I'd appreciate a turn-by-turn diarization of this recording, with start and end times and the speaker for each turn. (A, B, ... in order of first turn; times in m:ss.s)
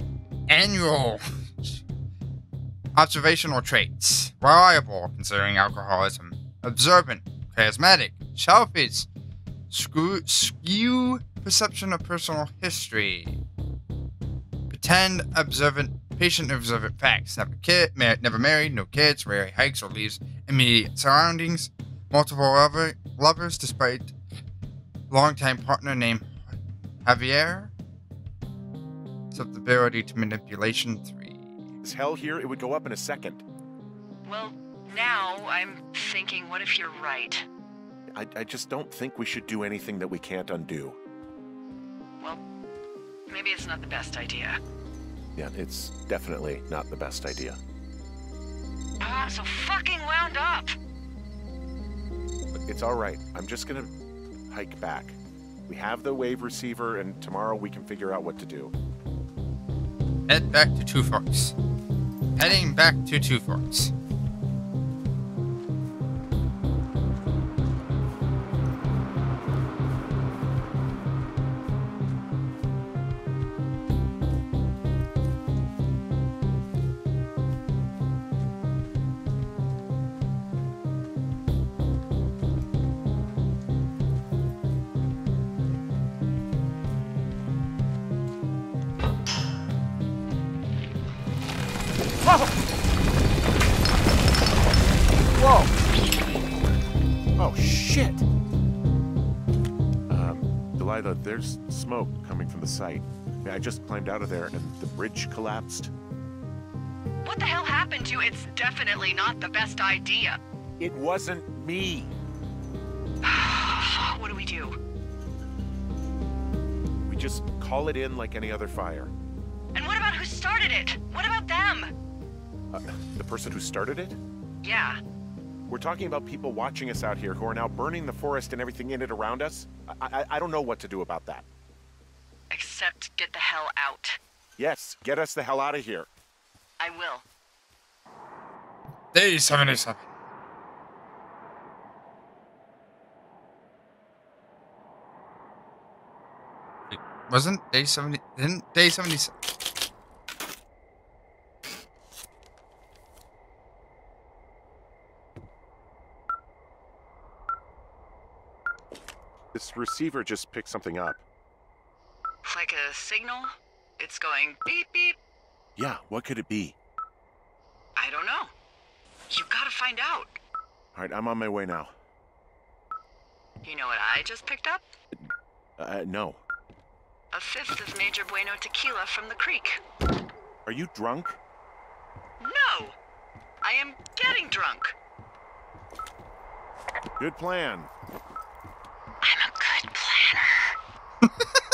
0:00.5-0:01.2 A
0:02.9-0:09.1 A
0:09.7-0:13.4 A
0:14.7-0:24.1 A
0:25.1-0:26.5 A
0:27.0-0:27.7 A
0:29.3-0:31.6 A
0:31.8-0:33.4 B
0:34.2-0:37.5 C
0:38.1-0:41.0 B
0:43.3-0:44.6 C
0:45.4-0:47.6 B
0:49.0-0:50.7 C
0:52.5-0:53.9 B
0:54.5-0:58.7 B
1:00.3-1:01.5 A
1:02.4-1:03.9 A
1:35.3-1:35.7 B
1:37.4-1:38.2 B
1:40.1-1:45.9 B
1:47.2-1:50.4 C
1:50.8-1:52.1 B
1:53.2-1:54.8 C
1:57.1-1:59.1 B
1:59.7-2:01.9 C
2:02.7-2:04.2 B
2:04.6-2:05.0 C
2:05.7-2:11.4 B
2:12.5-2:14.2 C
2:14.6-2:16.1 B
2:16.8-2:17.2 C
2:19.1-2:20.1 A
2:26.9-2:29.3 A
2:39.5-2:41.2 B
2:42.4-2:45.2 C
2:45.8-2:46.8 B
2:48.0-2:48.5 C
2:49.3-2:50.4 C
2:50.9-2:51.9 B
2:53.6-2:54.8 C
2:55.8-2:56.4 B
2:57.3-2:59.8 C
3:00.6-3:01.4 B
3:02.4-3:02.9 C
3:03.6-3:04.9 C
3:07.2-3:07.9 B
3:09.2-3:10.8 C